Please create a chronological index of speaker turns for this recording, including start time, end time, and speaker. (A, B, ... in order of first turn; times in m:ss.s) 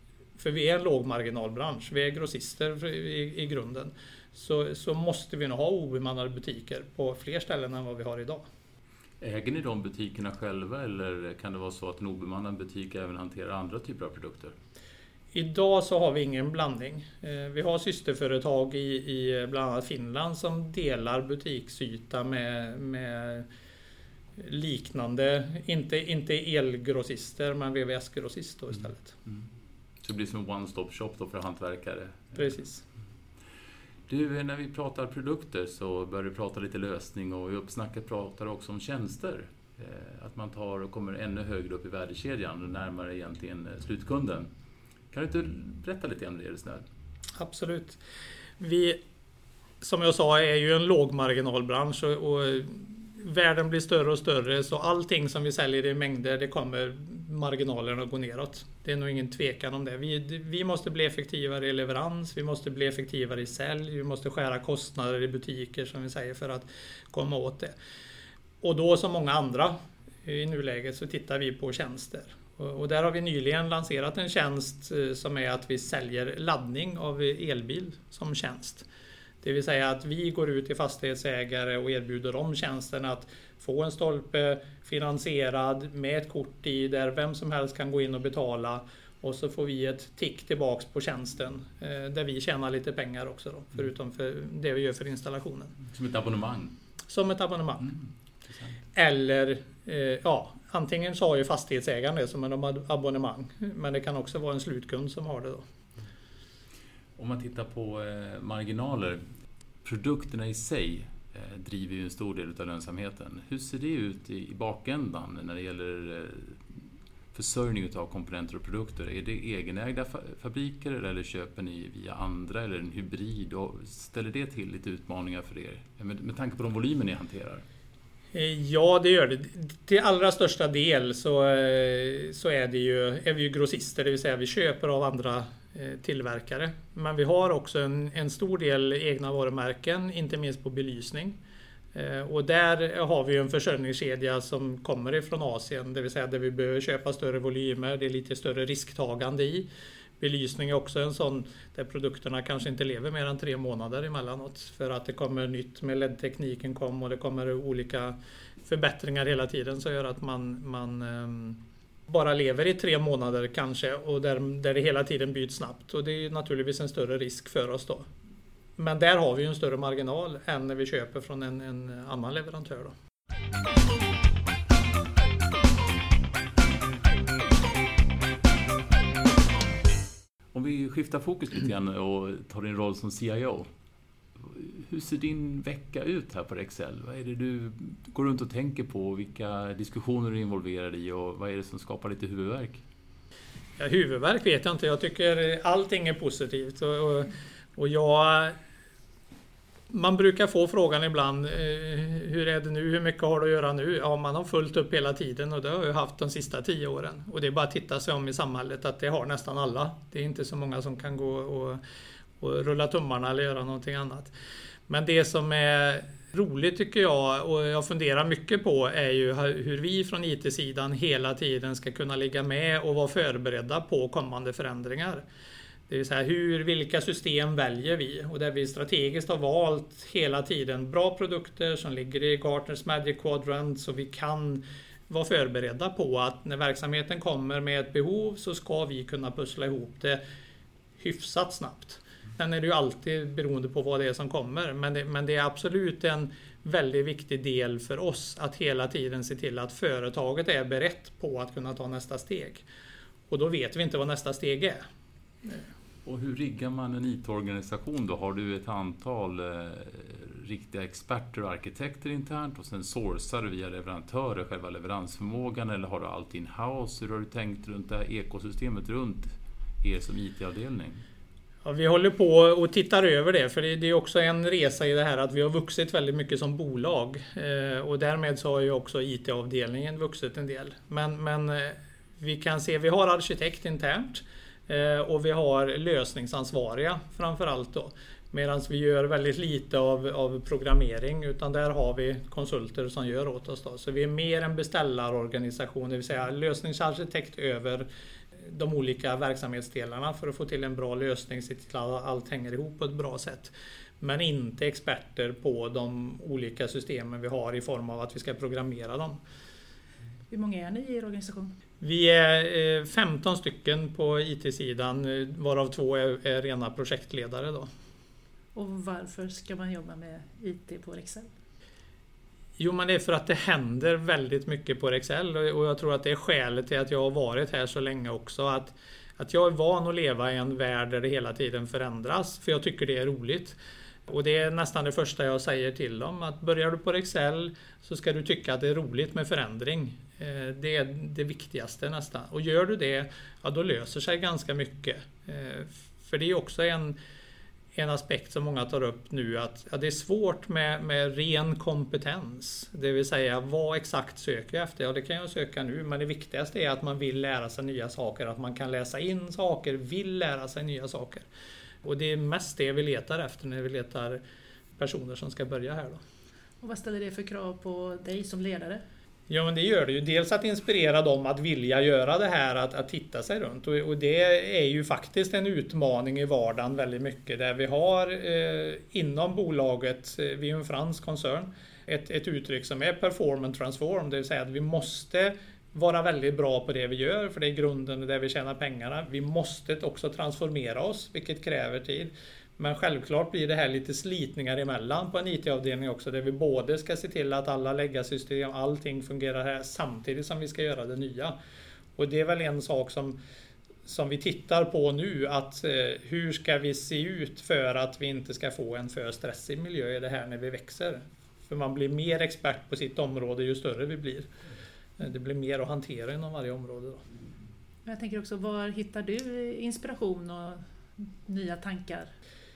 0:00.4-0:08.4 A
0:09.2-0:14.6 B
0:15.3-0:23.5 A
0:24.4-0:29.2 A
0:30.0-0:32.5 B
0:32.4-0:32.8 A
0:34.1-0:44.5 B
0:45.1-0:46.8 B
0:47.4-0:48.0 A
0:48.6-0:49.0 A
0:49.8-1:07.7 A
1:08.6-1:18.9 A
1:19.4-1:35.8 A
1:35.8-1:36.8 B
1:37.1-1:38.0 A
1:39.0-1:45.6 A
1:47.2-1:49.2 B
1:49.8-1:56.8 B
1:57.3-2:07.6 B
2:08.3-2:21.4 A
2:21.9-2:29.7 A
2:30.2-2:48.1 A
2:48.8-2:52.9 A
3:00.5-3:03.7 B
3:04.4-3:12.8 B
3:13.8-3:18.6 A
3:19.9-3:31.8 A
3:32.4-3:34.3 A
3:34.9-3:45.2 A
3:45.9-4:00.2 A
4:01.0-4:12.6 A
4:13.3-4:14.8 A
4:16.0-4:31.0 B
4:31.6-5:09.2 A
5:10.3-5:11.6 C
5:11.8-5:17.7 A
5:18.6-5:21.3 C
5:22.6-5:33.6 A
5:34.1-5:47.0 A
5:47.8-6:01.3 A
6:01.8-6:04.2 A
6:04.8-6:06.0 A
6:06.6-6:08.8 C
6:09.3-6:41.4 A
6:42.0-6:43.2 A
6:43.9-6:54.3 A
6:55.0-6:57.0 A
6:57.8-7:02.1 C